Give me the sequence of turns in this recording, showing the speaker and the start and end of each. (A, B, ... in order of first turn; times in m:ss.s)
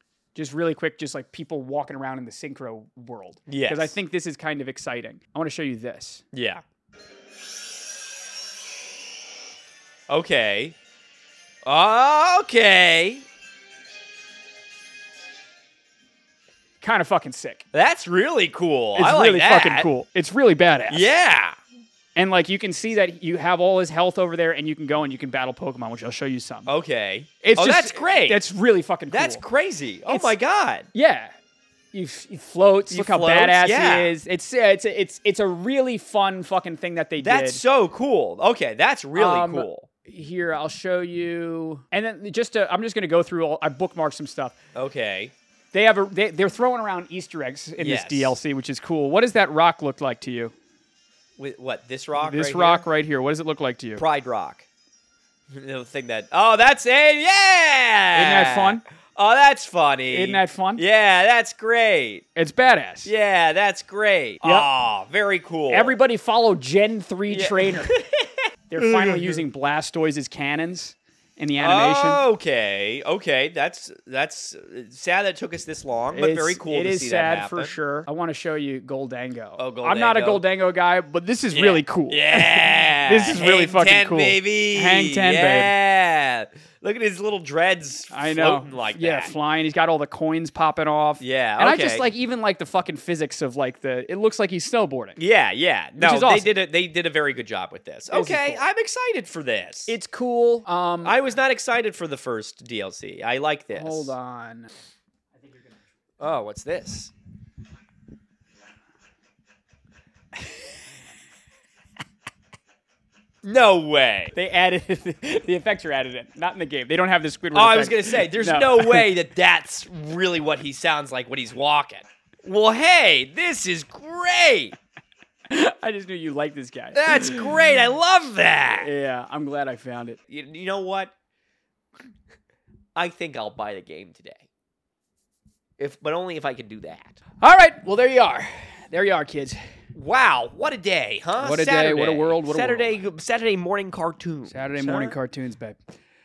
0:00.3-0:06.3 A
0:03.5-0:04.0 B
0:06.3-0:06.6 B
0:10.1-0:10.8 B
0:11.6-0:13.2 B
0:16.8-0:17.7 A
0:17.7-0:19.9 B
0:19.0-0:21.1 A
0:20.9-0:21.6 B
0:22.2-0:26.7 A
0:26.7-0:28.4 B
0:27.4-0:29.4 A
0:29.1-0:30.9 B
0:30.1-0:30.4 A
0:30.9-0:31.3 A
0:31.9-0:37.6 A
0:32.9-0:34.1 B
0:37.2-0:39.9 B
0:39.2-0:44.6 A
0:44.7-0:45.3 B
0:45.7-0:50.5 A
0:47.8-0:48.4 B
0:51.4-0:52.9 B
0:52.2-0:54.0 A
0:54.0-0:54.7 B
0:55.5-1:02.3 B
0:58.1-0:58.8 A
1:00.1-1:00.8 A
1:02.4-1:03.1 A
1:03.0-1:06.0 B
1:04.4-1:04.7 A
1:05.7-1:08.0 A
1:07.3-1:09.4 B
1:08.7-1:12.2 A
1:11.6-1:17.8 B
1:16.1-1:25.7 A
1:19.6-1:20.4 B
1:21.5-1:29.4 B
1:28.1-1:35.2 A
1:31.2-1:32.0 B
1:35.2-1:40.0 B
1:36.0-1:36.6 A
1:38.1-1:38.6 A
1:39.9-1:41.2 A
1:41.0-1:44.2 B
1:43.7-1:44.7 A
1:45.4-1:45.8 A
1:46.2-1:47.1 B
1:53.4-1:54.4 B
1:54.3-1:59.1 A
1:57.5-2:04.8 B
2:05.5-2:07.6 A
2:06.9-2:08.9 B
2:08.7-2:10.2 A
2:10.3-2:11.1 B
2:13.0-2:14.4 B
2:15.8-2:17.2 B
2:17.4-2:19.6 A
2:19.9-2:25.2 B
2:21.4-2:23.0 A
2:24.5-2:25.8 A